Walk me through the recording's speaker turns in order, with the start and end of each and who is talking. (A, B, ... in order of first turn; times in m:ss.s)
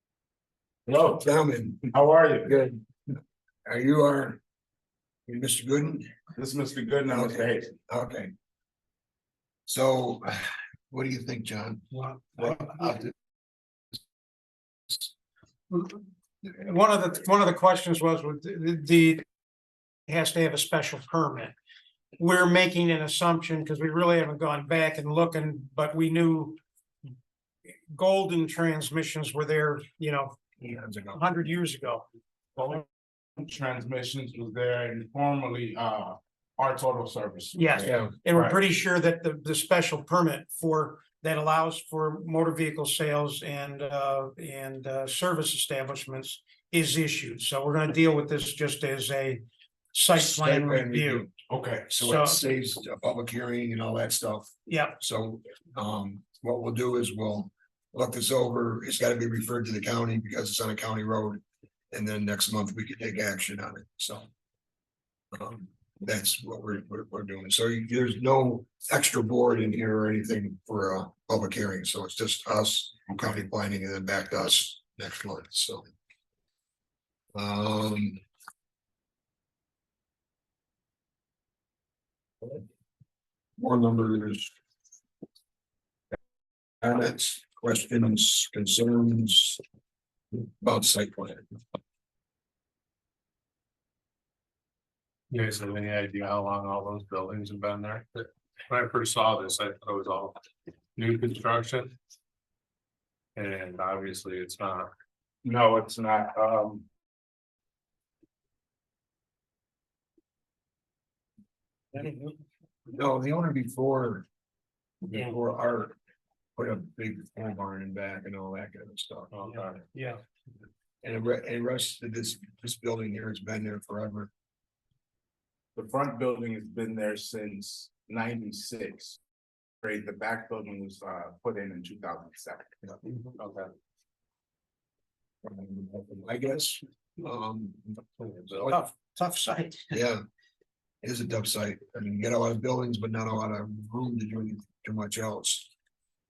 0:00.9-0:01.2 A
0:01.1-0:01.9 B
0:01.9-0:02.5 A
0:02.4-0:02.9 B
0:03.7-0:04.4 B
0:05.3-0:06.2 B
0:06.4-0:07.8 A
0:07.1-0:08.3 B
0:09.7-0:13.1 B
0:11.9-0:12.5 C
0:15.7-0:19.2 C
0:20.1-0:21.5 C
0:22.2-0:26.6 C
0:27.9-0:30.4 C
0:30.6-0:31.2 B
0:31.1-0:32.1 C
0:32.6-0:38.6 A
0:37.5-0:49.4 C
0:37.8-0:38.1 B
0:49.9-0:51.3 C
0:50.2-0:51.3 B
0:51.5-0:51.9 A
0:51.9-1:01.4 B
0:52.0-0:52.4 C
0:54.7-0:55.0 C
1:01.9-1:04.3 B
1:05.3-1:15.9 B
1:17.4-1:18.2 B
1:23.6-1:24.5 B
1:26.8-1:29.6 B
1:30.3-1:31.5 B
1:35.3-1:40.4 D
1:41.0-1:41.9 D
1:43.4-1:44.9 D
1:45.4-1:46.9 A
1:52.9-1:54.2 B
1:55.0-1:56.0 B
1:56.6-1:59.8 B
1:59.3-1:59.7 D
1:59.9-2:00.2 C
2:01.0-2:04.3 B
2:05.8-2:09.2 A
2:09.8-2:12.7 A
2:13.4-2:13.7 D
2:15.4-2:18.8 B
2:18.7-2:19.9 C
2:19.9-2:20.2 B
2:21.0-2:25.7 B